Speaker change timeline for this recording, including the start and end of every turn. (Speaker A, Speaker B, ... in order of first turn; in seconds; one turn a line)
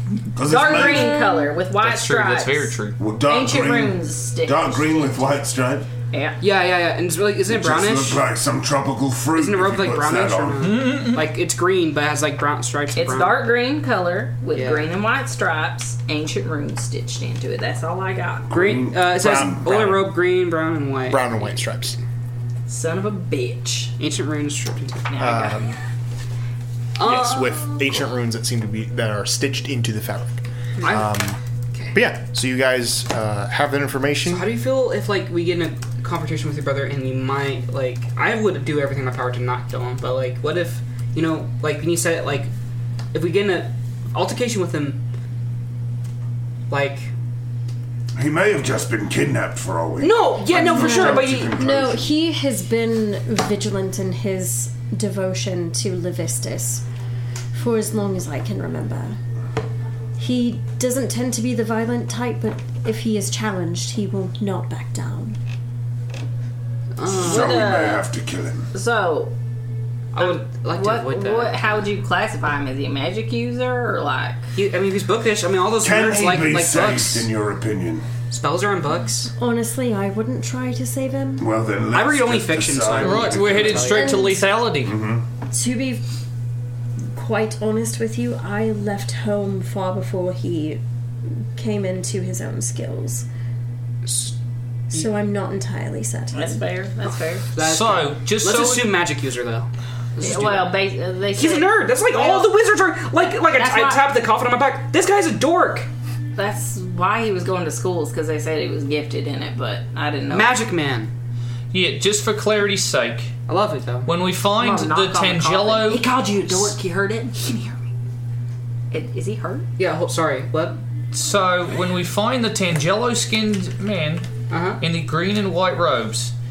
Speaker A: 0.3-1.3
Speaker B: 0.4-2.7
Speaker C: 0.7-1.5
Speaker D: 1.8-3.0
Speaker A: 3.0-5.9
Speaker B: 3.2-5.5
Speaker B: 6.1-6.4
Speaker E: 6.4-8.2
Speaker A: 7.5-10.7
Speaker E: 9.3-13.4
Speaker D: 10.6-11.3
Speaker B: 12.9-18.5
Speaker E: 14.5-14.9
Speaker A: 18.5-19.9
Speaker E: 18.5-21.4
Speaker F: 19.2-20.0
Speaker F: 21.1-22.0
Speaker B: 22.7-23.9
Speaker E: 24.0-25.1
Speaker B: 25.1-25.6
Speaker F: 25.2-25.8
Speaker E: 27.0-27.8
Speaker F: 27.0-31.4
Speaker E: 30.8-31.1
Speaker F: 31.9-34.5
Speaker E: 34.2-42.5
Speaker E: 43.1-45.0
Speaker E: 46.7-47.1
Speaker A: 48.1-52.1
Speaker E: 50.0-51.7
Speaker C: 50.6-56.8
Speaker C: 57.5-59.2
Speaker C: 60.2-65.4
Speaker E: 67.0-67.6
Speaker A: 67.1-68.7
Speaker B: 67.2-68.1
Speaker B: 68.7-69.3
Speaker E: 70.1-71.8
Speaker B: 70.2-74.4
Speaker E: 74.5-77.3
Speaker A: 75.8-78.0
Speaker E: 78.3-79.3
Speaker C: 79.4-81.5
Speaker A: 81.4-83.9
Speaker E: 81.9-84.2
Speaker D: 82.9-85.0
Speaker C: 83.9-84.6
Speaker A: 84.8-85.2
Speaker C: 85.5-86.0
Speaker C: 87.1-90.8
Speaker C: 91.5-93.2
Speaker E: 94.0-94.3
Speaker C: 94.9-96.6
Speaker B: 96.3-97.5
Speaker E: 97.5-100.8
Speaker D: 97.6-98.9
Speaker B: 100.2-102.5
Speaker E: 101.3-105.9
Speaker B: 103.5-104.0
Speaker B: 106.3-110.5
Speaker E: 110.3-111.1
Speaker D: 111.7-113.3
Speaker E: 113.5-114.1
Speaker D: 114.0-116.0
Speaker B: 114.6-117.8
Speaker B: 118.9-119.7
Speaker E: 119.8-120.8
Speaker D: 121.1-124.3
Speaker E: 124.5-124.8
Speaker D: 124.8-126.3